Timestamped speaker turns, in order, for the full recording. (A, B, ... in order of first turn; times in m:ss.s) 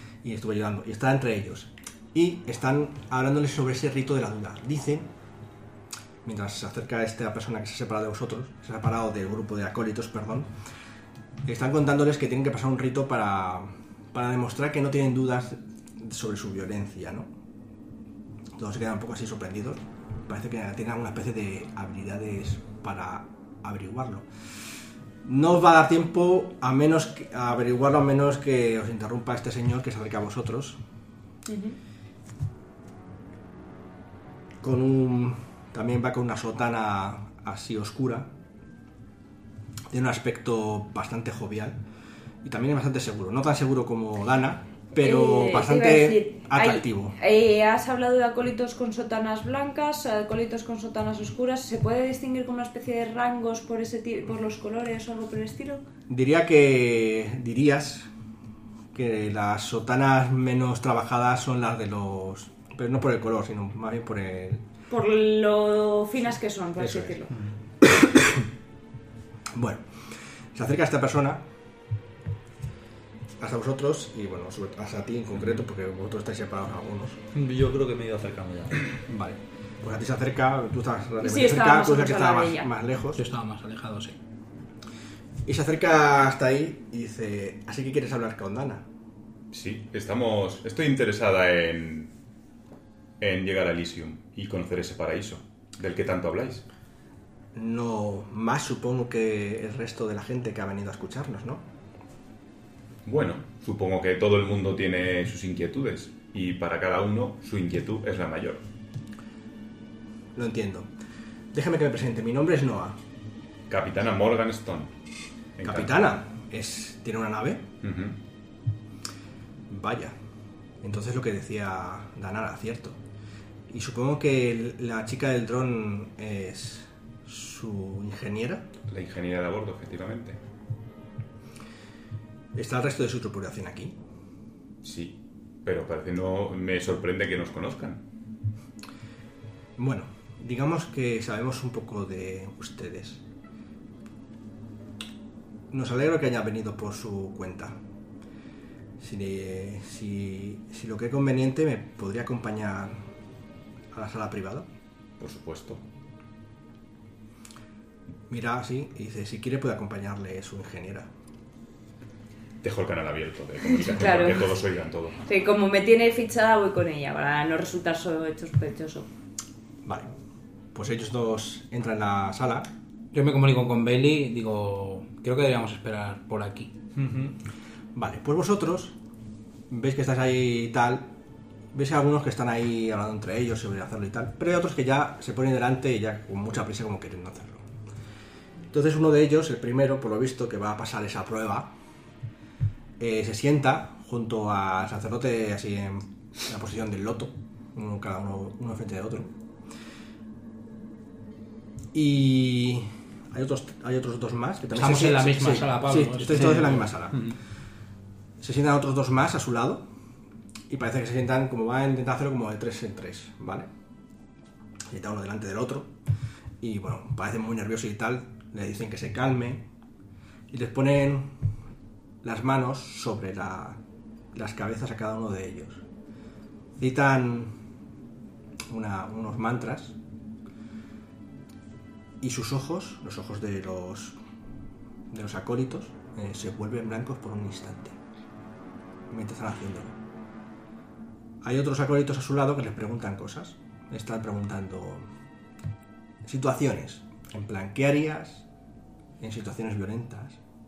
0:00.2-0:05.1 A
0:06.2-0:10.5 A
0:11.4-0:17.3 A
0:18.6-0:24.3 A
0:25.2-0:30.8 A
0:31.5-0:31.8 B
0:34.6-0:38.3 A
0:39.9-0:41.8 A
0:42.4-0:47.2 A
0:45.0-0:55.8 B
0:56.1-0:58.1 A
0:58.9-1:04.6 A
1:04.9-1:07.3 B
1:06.8-1:07.1 A
1:07.8-1:08.5 A
1:09.5-1:10.0 A
1:10.5-1:11.4 A
1:13.4-1:17.2 A
1:17.3-1:18.9 C
1:19.1-1:23.2 A
1:21.2-1:22.7 B
1:23.2-1:24.2 D
1:25.4-1:28.8 A
1:29.5-1:32.1 E
1:33.2-1:36.6 E
1:37.5-1:41.6 A
1:43.0-1:48.6 E
1:50.3-1:50.9 A
1:51.5-1:53.0 A
1:53.7-1:54.9 E
1:55.6-1:55.9 E
1:55.6-1:57.7 A
1:57.8-1:58.2 E
1:59.7-2:00.2 A
2:00.8-2:03.0 A
2:03.7-2:08.7 A
2:08.9-2:10.4 E
2:12.5-2:14.0 A
2:14.8-2:18.0 E
2:19.8-2:23.2 A
2:25.7-2:27.8 A
2:29.0-2:33.0 A
2:33.9-2:34.7 A
2:35.2-2:35.8 E
2:38.3-2:41.1 A
2:42.6-2:45.2 E
2:43.7-2:44.5 B
2:45.2-2:49.1 B
2:49.8-2:50.1 A
2:50.7-2:52.7 A
2:53.1-2:56.7 D
2:56.9-2:57.3 C
2:57.9-2:59.0 A
2:59.7-3:01.1 A
3:01.7-3:07.6 A
3:08.7-3:11.7 A
3:13.0-3:19.3 A
3:21.9-3:27.3 A
3:24.7-3:27.3 D
3:28.4-3:29.8 A
3:30.7-3:33.7 A
3:34.9-3:35.9 A
3:36.6-3:39.6 A
3:40.5-3:41.3 A
3:42.2-3:43.8 A
3:44.3-3:45.8 A
3:46.8-3:47.6 A
3:48.7-3:50.0 A
3:52.2-3:54.2 A
3:55.1-3:58.0 A
3:59.1-4:00.0 A
4:01.4-4:05.1 A
4:06.2-4:08.4 A
4:09.2-4:10.4 A